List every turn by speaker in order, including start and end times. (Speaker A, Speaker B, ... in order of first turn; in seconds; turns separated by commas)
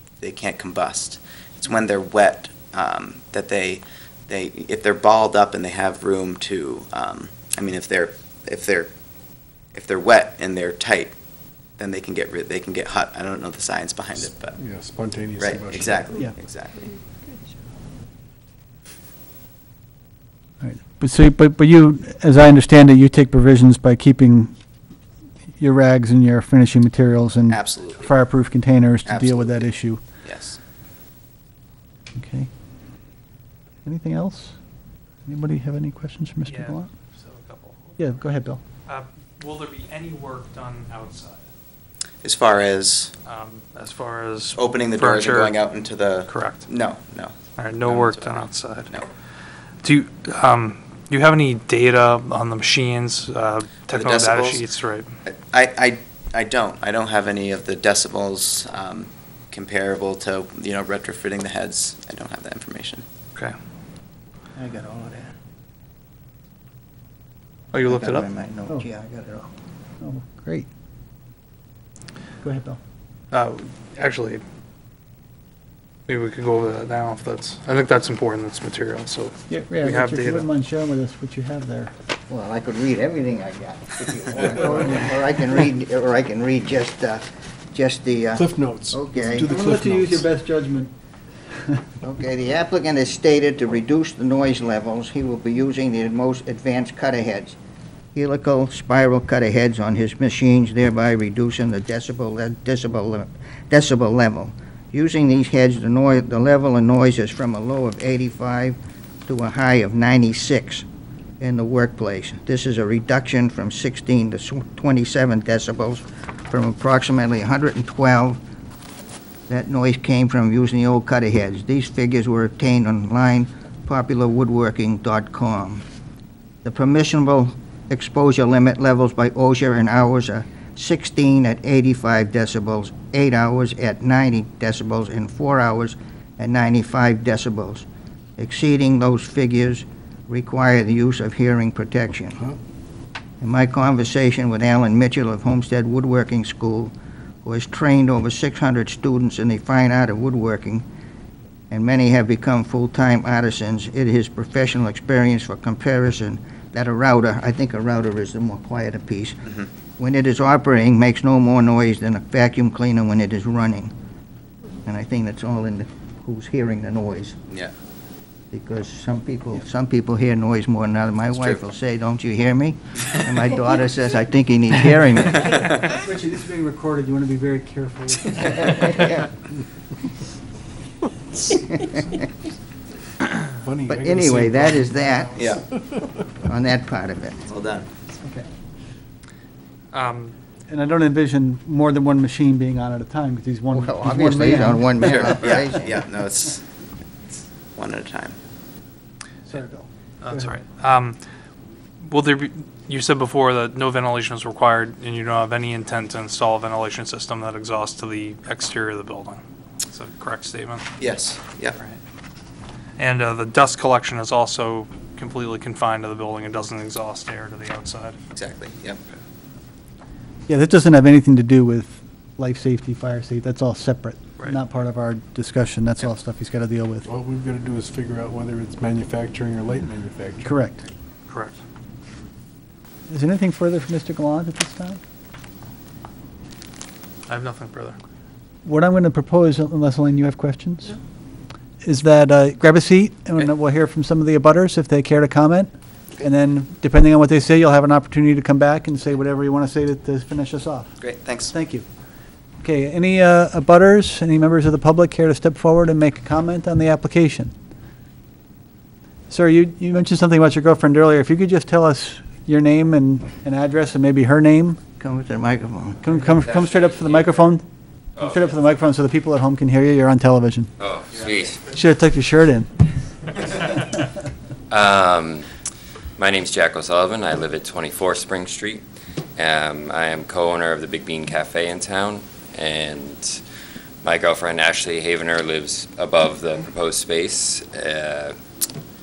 Speaker A: 0.2-8.9, Speaker A: 9.7-11.2, Speaker A: 11.8-14.6, Speaker B: 14.2-16.2, Speaker A: 15.4-16.9, Speaker C: 20.6-24.5, Speaker C: 25.6-30.0, Speaker A: 27.5-28.1, Speaker A: 29.1-30.6, Speaker C: 32.1-32.5, Speaker C: 33.9-34.5, Speaker C: 35.3-36.9, Speaker D: 36.4-38.1, Speaker C: 38.0-38.6, Speaker D: 38.9-41.5, Speaker A: 42.2-43.1, Speaker D: 43.2-45.6, Speaker A: 44.6-47.4, Speaker D: 46.3-46.7, Speaker D: 47.6-48.9, Speaker A: 47.9-49.1, Speaker D: 49.8-55.1, Speaker A: 53.9-54.6, Speaker A: 55.3-63.0, Speaker E: 64.6-65.3, Speaker D: 67.7-68.3, Speaker E: 67.8-69.5, Speaker C: 70.0-70.7, Speaker C: 72.4-72.8, Speaker D: 73.3-74.4, Speaker D: 76.1-80.5, Speaker C: 79.5-81.9, Speaker E: 82.3-89.6, Speaker B: 88.3-90.3, Speaker C: 89.5-90.9, Speaker E: 92.0-97.6, Speaker E: 98.2-110.8, Speaker E: 111.4-118.4, Speaker E: 119.5-125.8, Speaker E: 126.6-137.9, Speaker E: 138.4-142.4, Speaker E: 143.4-150.8, Speaker E: 151.7-159.4, Speaker E: 160.0-163.9, Speaker E: 164.8-167.4, Speaker E: 168.5-175.8, Speaker A: 171.3-171.6, Speaker C: 176.0-179.1, Speaker E: 178.4-179.3, Speaker E: 181.7-182.2, Speaker B: 183.6-186.0, Speaker E: 183.9-185.4, Speaker A: 185.3-185.6, Speaker E: 186.4-187.5, Speaker A: 187.5-187.9, Speaker D: 189.9-190.3, Speaker C: 190.7-195.1, Speaker E: 193.7-195.9, Speaker A: 195.0-196.7, Speaker A: 197.8-198.4, Speaker C: 199.5-200.5, Speaker D: 200.2-201.2, Speaker D: 202.0-210.9, Speaker A: 211.0-211.8, Speaker D: 211.8-212.0, Speaker D: 213.0-218.2, Speaker A: 218.3-219.0, Speaker C: 220.5-227.1, Speaker B: 227.1-230.6, Speaker C: 230.4-230.8, Speaker D: 231.3-231.6, Speaker C: 233.1-235.0, Speaker D: 237.3-238.0, Speaker C: 238.6-240.9, Speaker C: 241.8-245.7, Speaker C: 246.2-250.9, Speaker A: 251.0-251.6, Speaker C: 251.5-251.9, Speaker C: 252.6-257.5, Speaker C: 259.3-264.8, Speaker E: 265.0-266.1, Speaker C: 266.0-267.6, Speaker F: 266.3-267.6, Speaker F: 268.2-268.6, Speaker C: 268.2-270.7, Speaker F: 270.8-271.6, Speaker C: 271.7-272.7, Speaker F: 274.7-275.5, Speaker F: 276.2-278.8, Speaker F: 279.4-283.4, Speaker F: 284.0-288.4